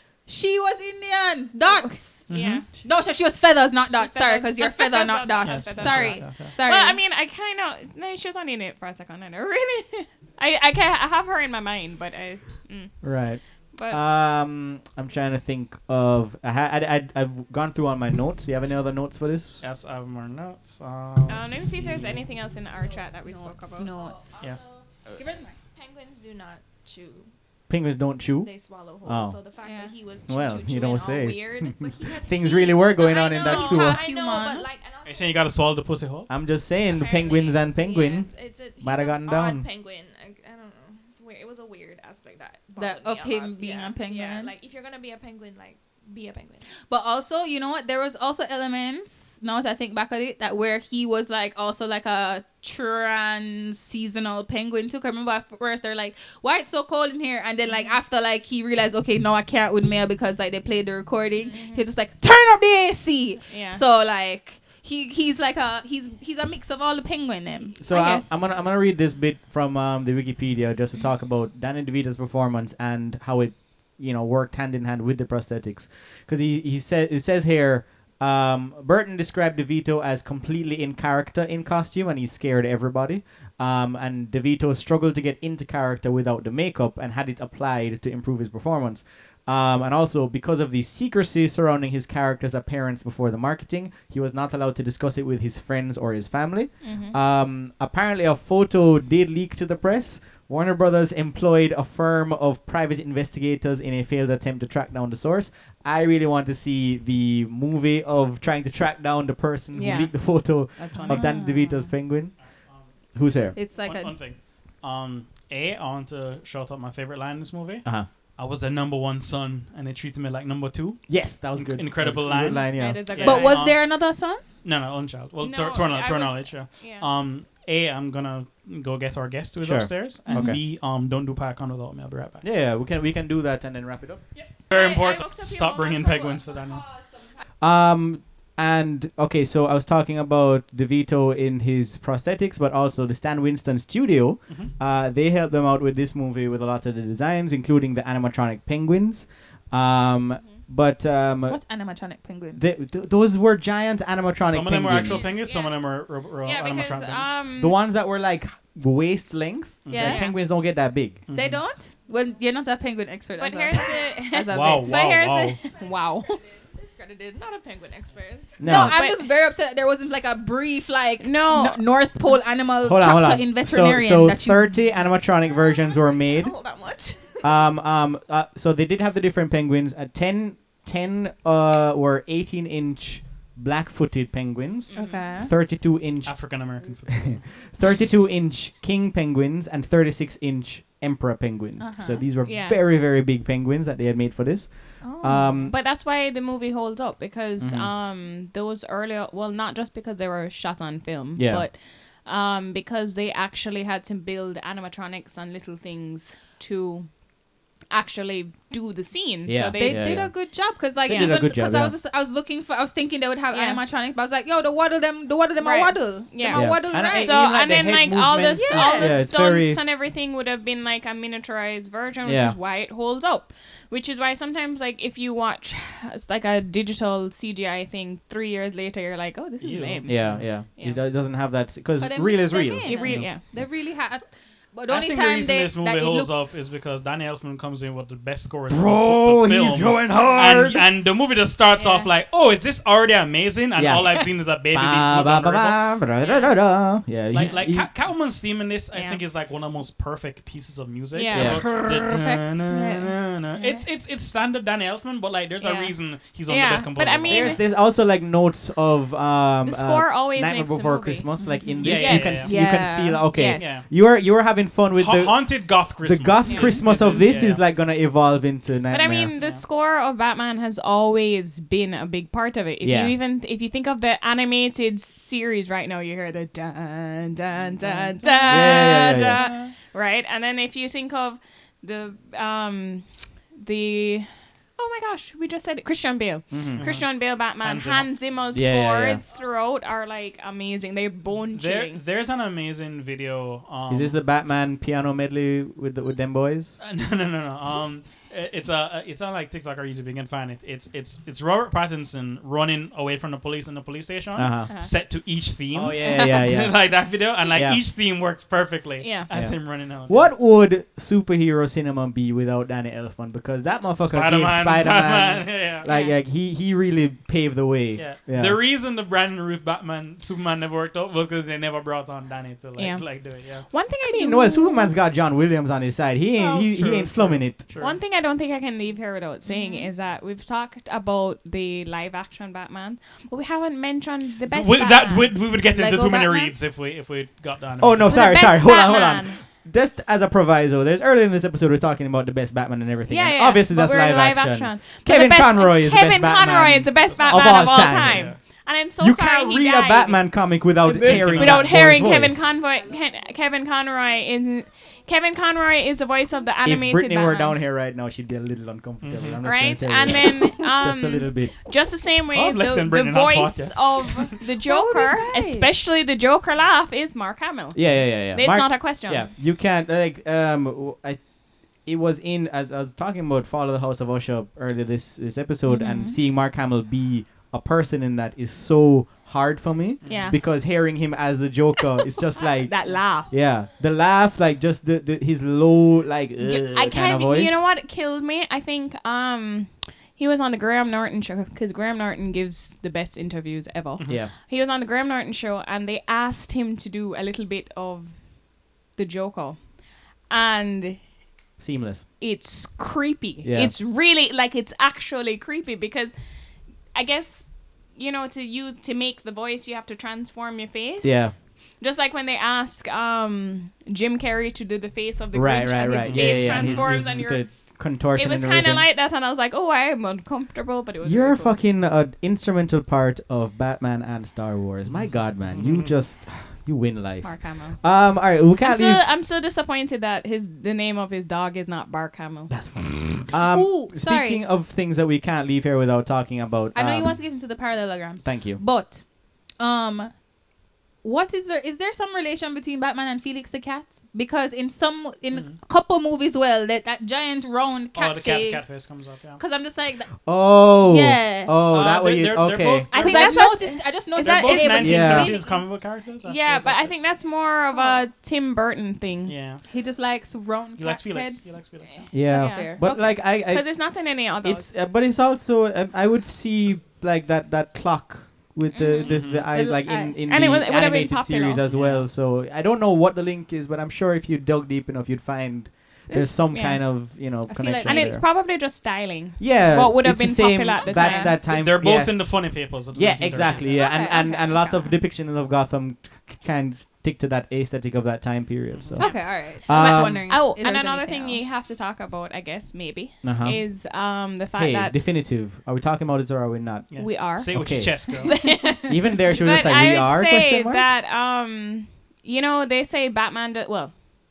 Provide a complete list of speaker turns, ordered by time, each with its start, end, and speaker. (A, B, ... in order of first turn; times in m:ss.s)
0:00.2-0:07.0 A
0:01.6-0:02.7 B
0:02.3-0:02.7 C
0:03.9-0:13.1 B
0:05.4-0:06.5 C
0:13.0-0:19.6 D
0:13.7-0:14.0 B
0:19.6-0:22.2 C
0:21.3-0:23.9 B
0:22.7-0:25.1 E
0:23.7-0:24.3 A
0:24.4-0:24.6 C
0:25.1-0:25.6 A
0:25.7-0:27.3 E
0:27.7-0:28.5 D
0:28.4-0:35.4 E
0:29.0-0:29.4 D
0:29.6-0:29.9 B
0:30.2-0:34.0 D
0:32.2-0:34.7 A
0:35.0-0:36.3 C
0:36.3-0:39.6 D
0:36.9-0:46.7 E
0:42.8-0:44.5 A
0:46.9-1:07.8 A
0:57.7-0:57.9 B
1:01.4-1:01.8 B
1:03.5-1:03.8 B
1:07.8-1:52.4 D
1:07.9-1:08.4 B
1:36.8-1:37.2 B
1:49.7-1:51.4 B
1:51.0-1:51.8 A
1:53.1-1:53.5 D
1:53.5-1:54.2 A
1:53.7-2:03.8 C
2:01.1-2:03.1 D
2:02.7-2:03.7 B
2:03.2-2:04.4 A
2:04.6-2:12.4 C
2:05.4-2:07.1 B
2:09.6-2:10.6 D
2:10.3-2:10.6 A
2:12.4-2:14.2 D
2:14.4-2:16.9 C
2:14.7-2:16.0 B
2:15.8-2:17.1 E
2:17.6-2:31.6 D
2:31.5-2:32.6 A
2:32.6-2:35.4 D
2:34.4-2:37.4 C
2:34.9-2:35.8 B
2:36.4-2:37.8 B
2:37.6-2:41.2 D
2:39.8-2:40.3 C
2:39.9-2:40.2 A
2:40.0-2:40.3 B
2:41.3-2:41.6 C
2:41.3-2:45.0 A
2:43.4-2:46.4 B
2:44.5-2:45.6 C
2:45.7-2:48.6 E
2:48.6-2:49.0 D
2:48.6-2:55.1 A
2:48.7-2:49.3 B
2:51.2-2:51.8 B
2:52.8-2:56.6 D
2:55.5-2:57.5 E
2:57.4-3:15.7 D
3:04.9-3:05.4 B
3:05.0-3:05.5 A
3:06.2-3:07.5 C
3:11.8-3:12.2 A
3:12.4-3:12.8 B
3:15.0-3:15.7 A
3:15.0-3:27.2 B
3:17.6-3:17.9 D
3:21.4-3:21.7 D
3:27.9-3:30.2 B
3:29.4-3:30.3 D
3:29.8-3:37.5 A
3:31.0-3:31.9 D
3:31.1-3:31.4 B
3:33.5-3:33.8 B
3:35.6-3:51.0 B
3:36.5-3:39.8 D
3:38.5-3:39.2 A
3:42.2-3:42.6 D
3:49.6-3:50.5 C
3:50.1-3:53.4 D
3:52.0-3:56.6 A
3:52.8-3:53.4 B
3:54.9-4:05.9 C
3:58.7-4:00.8 D
4:01.7-4:02.1 B
4:03.8-4:07.9 D
4:06.2-4:06.5 B
4:07.3-4:17.6 C
4:08.9-4:09.2 B
4:11.1-4:13.8 B
4:11.3-4:12.0 D
4:15.6-4:17.6 B
4:17.3-4:29.3 D
4:19.6-4:23.8 B
4:21.4-4:21.9 A
4:21.8-4:22.5 C
4:22.5-4:22.8 A
4:23.6-4:23.9 C
4:25.0-4:27.6 C
4:26.4-4:27.2 B
4:28.9-4:52.0 B
4:29.4-4:29.6 C
4:32.8-4:33.1 D
4:37.6-4:39.7 C
4:38.5-4:39.5 D
4:46.5-4:46.8 D
4:46.8-4:48.2 C
4:48.5-4:49.2 D
4:51.5-4:54.2 C
4:53.9-4:56.8 D
4:56.8-5:10.3 C
5:04.4-5:04.7 D
5:05.7-5:07.8 D
5:09.0-5:09.3 B
5:09.3-5:18.6 D
5:14.0-5:15.8 C
5:15.8-5:16.2 B
5:18.0-5:23.7 C
5:22.8-5:24.9 B
5:24.0-5:27.6 D
5:26.4-5:28.0 C
5:27.8-5:35.4 B
5:29.5-5:29.8 C
5:34.5-5:38.4 C
5:35.7-5:36.5 A
5:37.8-5:48.4 D
5:38.1-5:39.4 B
5:43.1-5:50.3 B
5:47.0-5:48.4 C
5:49.0-5:52.6 D
5:50.8-5:51.7 C
5:51.0-5:57.6 B
5:56.6-6:01.6 D
5:59.0-5:59.4 C
5:59.4-6:09.3 B
6:02.3-6:04.4 C
6:04.6-6:05.7 A
6:07.7-6:11.2 D
6:11.8-6:27.6 D
6:15.7-6:16.1 A
6:15.7-6:16.1 B
6:20.0-6:20.3 C
6:20.0-6:20.4 B
6:22.2-6:23.3 B
6:26.4-6:38.4 B
6:34.0-6:34.3 D
6:38.9-6:41.0 B
6:41.6-6:42.1 D
6:42.2-6:46.1 B
6:43.4-6:43.7 D
6:46.9-6:51.2 B
6:51.0-6:51.3 D
6:51.8-6:57.4 B
6:55.3-6:58.9 D
6:56.0-6:57.1 C
6:58.1-7:01.6 B
7:01.0-7:09.1 D
7:04.9-7:05.9 C
7:07.2-7:07.8 B
7:08.6-7:12.5 B
7:12.5-7:17.2 D
7:13.5-7:14.4 A
7:16.7-7:20.1 A
7:18.2-7:18.6 D
7:21.0-7:30.2 A
7:25.3-7:25.6 C
7:27.9-7:29.4 C
7:30.2-7:32.9 D
7:30.8-7:31.6 A
7:31.7-7:33.5 C
7:32.9-7:35.6 A
7:32.9-7:35.5 B
7:34.2-7:36.9 C
7:34.8-7:35.4 D
7:36.2-7:39.4 B
7:37.8-7:38.0 A
7:39.2-7:39.6 C
7:39.6-7:43.2 A
7:40.8-7:42.1 C
7:41.9-7:44.7 B
7:42.1-7:58.2 D
7:48.7-7:49.2 B
7:49.0-7:49.5 C
7:49.4-7:50.2 A
7:50.2-7:51.6 B
7:51.7-7:52.0 C
7:56.1-7:56.8 B
7:57.5-7:58.2 A
7:57.8-8:01.4 B
7:59.4-8:10.3 D
8:00.9-8:01.4 A
8:01.5-8:04.0 C
8:03.5-8:04.7 B
8:03.6-8:04.9 A
8:08.7-8:09.0 C
8:09.0-8:11.5 A
8:09.0-8:15.0 B
8:13.2-8:13.8 D
8:14.5-8:20.8 D
8:16.9-8:18.4 C
8:17.0-8:23.9 B